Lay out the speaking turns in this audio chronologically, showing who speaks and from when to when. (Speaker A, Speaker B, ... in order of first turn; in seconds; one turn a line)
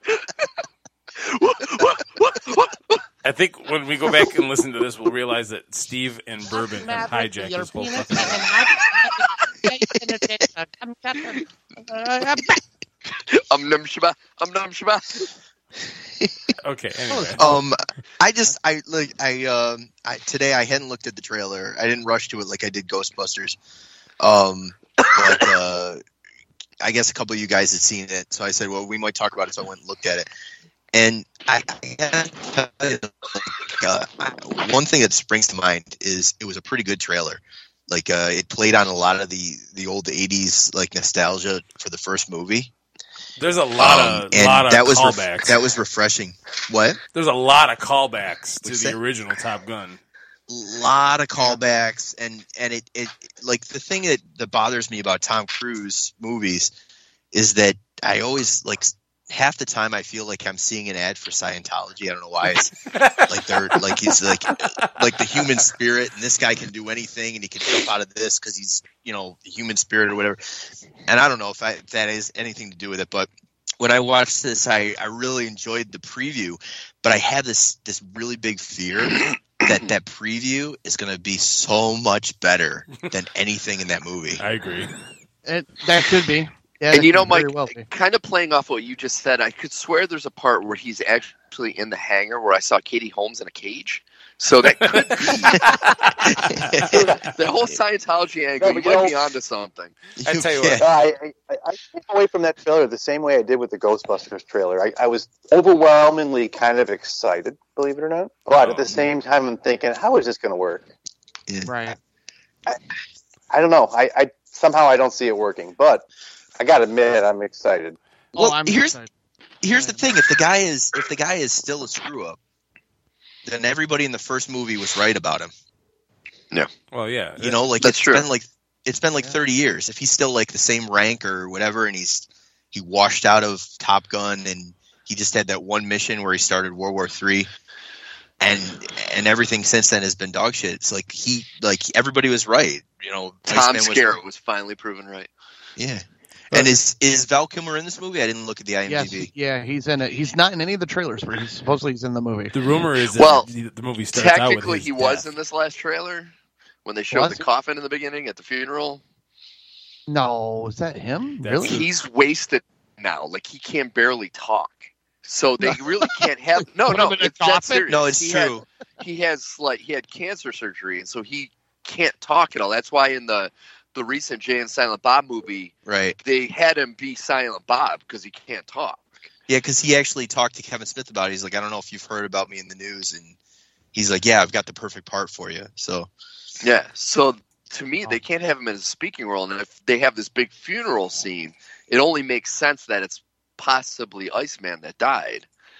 Speaker A: 1.2-3.0
Speaker B: 3.2-8.5
Speaker C: 6.5-12.6
Speaker A: 13.3-15.3
Speaker B: 16.6-17.4
Speaker C: 17.1-17.4
Speaker D: 17.4-23.6
Speaker D: 24.2-26.0
Speaker D: 26.8-30.3
Speaker D: 30.9-42.7
Speaker B: 43.4-45.6
Speaker D: 43.8-47.0
Speaker B: 47.1-50.0
Speaker D: 48.6-49.0
Speaker D: 50.5-56.7
Speaker D: 57.3-70.4
Speaker B: 62.9-63.2
Speaker B: 64.0-65.5
Speaker D: 71.1-73.3
Speaker D: 73.8-84.4
Speaker B: 84.4-84.9
Speaker C: 85.4-87.9
Speaker A: 86.9-95.6
Speaker B: 94.7-96.9
Speaker D: 96.2-97.1
Speaker E: 96.9-97.3
Speaker A: 97.2-100.0
Speaker E: 98.6-99.1
Speaker B: 100.2-100.9
Speaker D: 100.2-100.8
Speaker E: 100.8-110.9
Speaker B: 108.6-109.0
Speaker D: 111.5-111.7
Speaker C: 111.6-112.0
Speaker E: 113.5-116.0
Speaker E: 116.6-118.0
Speaker D: 118.3-119.0
Speaker C: 118.3-119.1
Speaker D: 119.6-122.4
Speaker C: 119.7-120.1
Speaker D: 123.4-125.5
Speaker B: 126.9-127.6
Speaker D: 127.4-137.5
Speaker A: 127.8-128.2
Speaker D: 138.4-144.2
Speaker A: 143.5-145.3
Speaker D: 145.8-149.3
Speaker C: 148.8-152.5
Speaker B: 152.5-155.3
Speaker A: 153.1-153.5
Speaker A: 154.1-156.3
Speaker A: 156.8-159.0
Speaker C: 157.1-157.4
Speaker C: 160.1-161.8
Speaker B: 161.4-161.9
Speaker A: 161.6-168.4
Speaker C: 166.9-168.5
Speaker D: 167.9-168.6
Speaker A: 169.0-179.3
Speaker D: 175.8-176.2
Speaker D: 179.5-183.3
Speaker D: 183.9-186.1
Speaker A: 186.6-195.5